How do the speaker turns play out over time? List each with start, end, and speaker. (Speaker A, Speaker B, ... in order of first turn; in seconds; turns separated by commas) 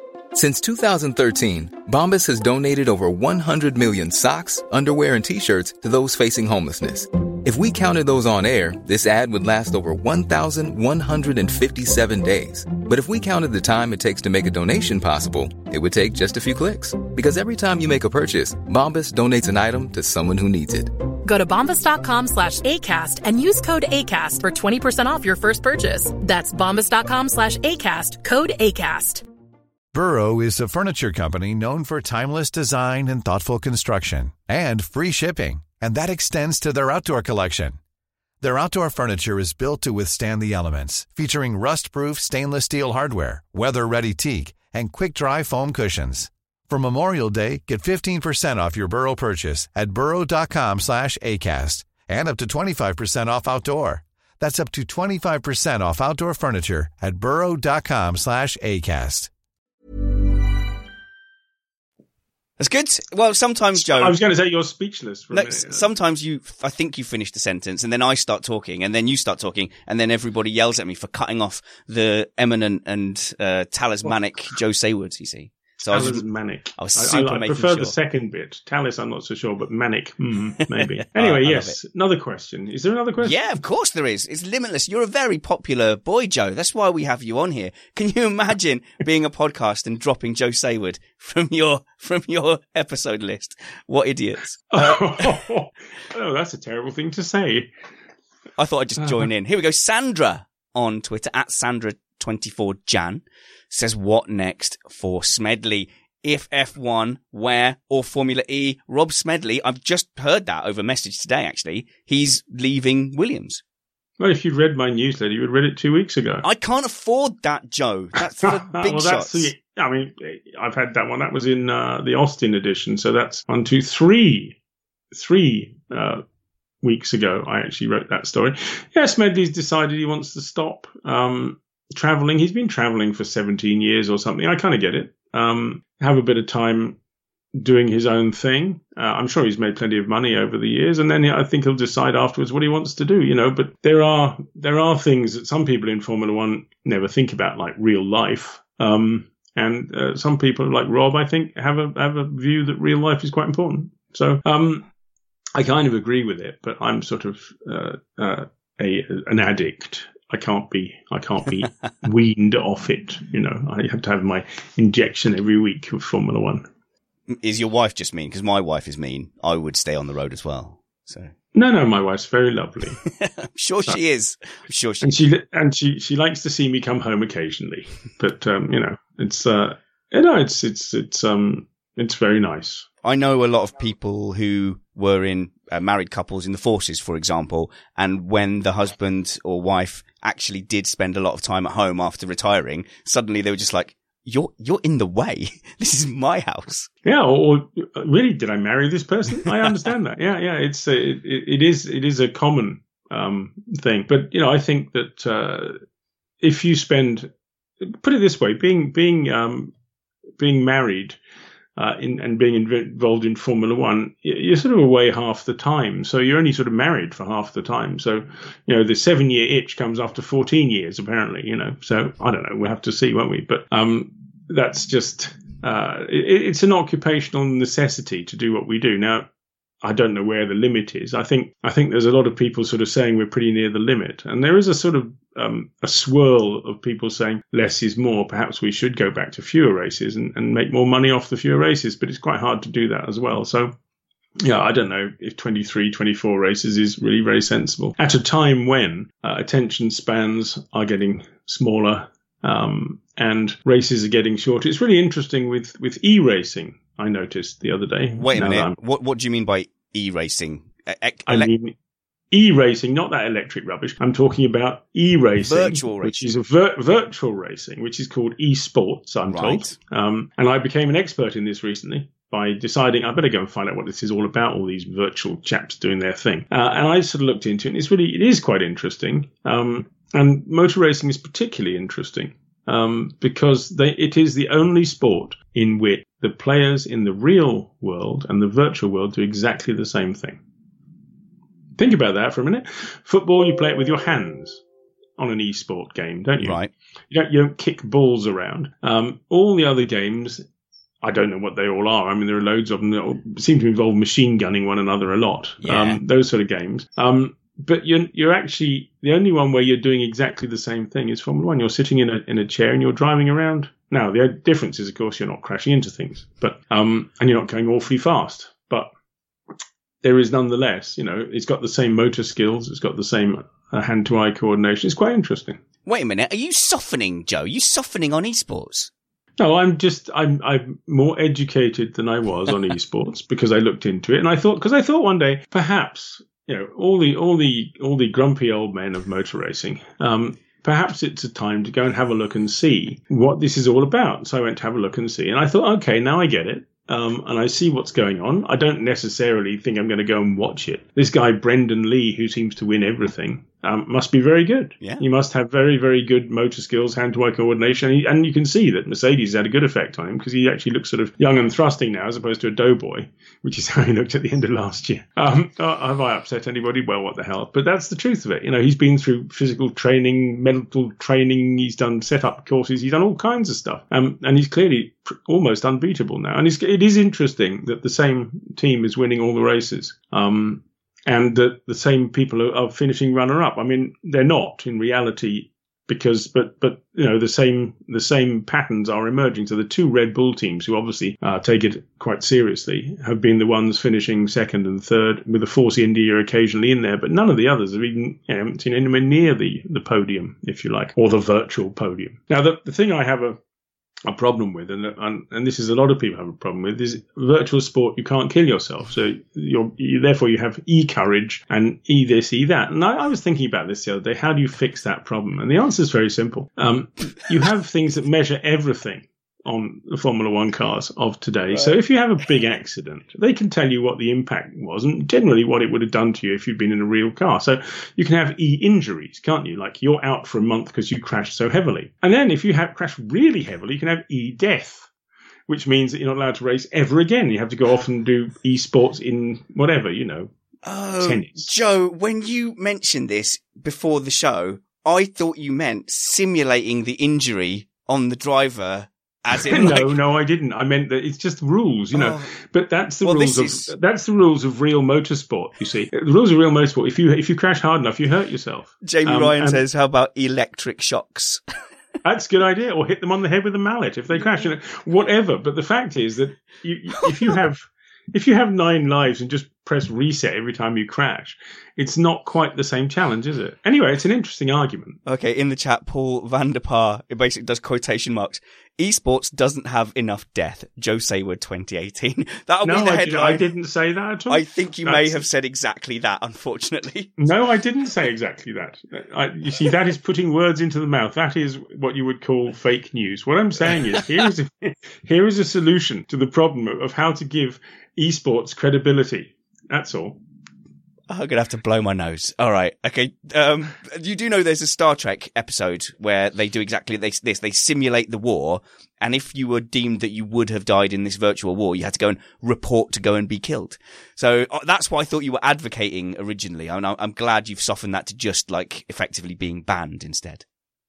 Speaker A: 0.3-20.9, Speaker B: 21.2-29.2, Speaker C: 29.9-37.8, Speaker C: 38.4-59.3, Speaker D: 62.6-64.2, Speaker E: 63.8-65.9, Speaker D: 65.3-78.0, Speaker E: 75.9-83.4, Speaker D: 81.1-81.8, Speaker D: 83.2-95.3, Speaker E: 94.7-97.7, Speaker D: 98.6-113.6, Speaker E: 114.2-116.4, Speaker D: 116.4-119.5, Speaker E: 118.4-124.6, Speaker E: 125.1-126.2, Speaker E: 126.8-137.0, Speaker E: 137.6-154.9, Speaker E: 155.6-166.7, Speaker D: 167.3-171.3, Speaker E: 171.5-173.0, Speaker D: 173.2-175.2, Speaker E: 175.0-182.9, Speaker D: 183.0-196.9, Speaker E: 197.1-205.8, Speaker E: 206.4-207.3, Speaker E: 207.8-209.7, Speaker E: 210.4-211.2, Speaker E: 211.8-229.3, Speaker E: 229.8-243.7, Speaker E: 244.4-258.7, Speaker D: 258.2-261.5, Speaker E: 261.3-261.8, Speaker E: 262.3-290.4, Speaker D: 265.4-266.3, Speaker D: 269.3-269.7, Speaker E: 291.8-294.6, Speaker E: 295.2-296.6, Speaker D: 296.4-296.7, Speaker E: 297.1-300.4, Speaker E: 301.0-318.9, Speaker D: 305.6-306.0, Speaker E: 320.0-325.6, Speaker D: 325.9-328.9, Speaker E: 329.4-403.4, Speaker E: 404.1-434.9, Speaker E: 435.5-440.3, Speaker D: 440.6-450.0, Speaker E: 441.0-441.5, Speaker E: 449.3-459.6, Speaker D: 451.9-452.3, Speaker D: 453.0-453.7, Speaker D: 458.8-461.4, Speaker E: 462.0-475.0, Speaker D: 475.1-483.4, Speaker E: 482.6-485.2, Speaker D: 484.3-487.1, Speaker E: 487.2-500.2, Speaker D: 501.1-520.4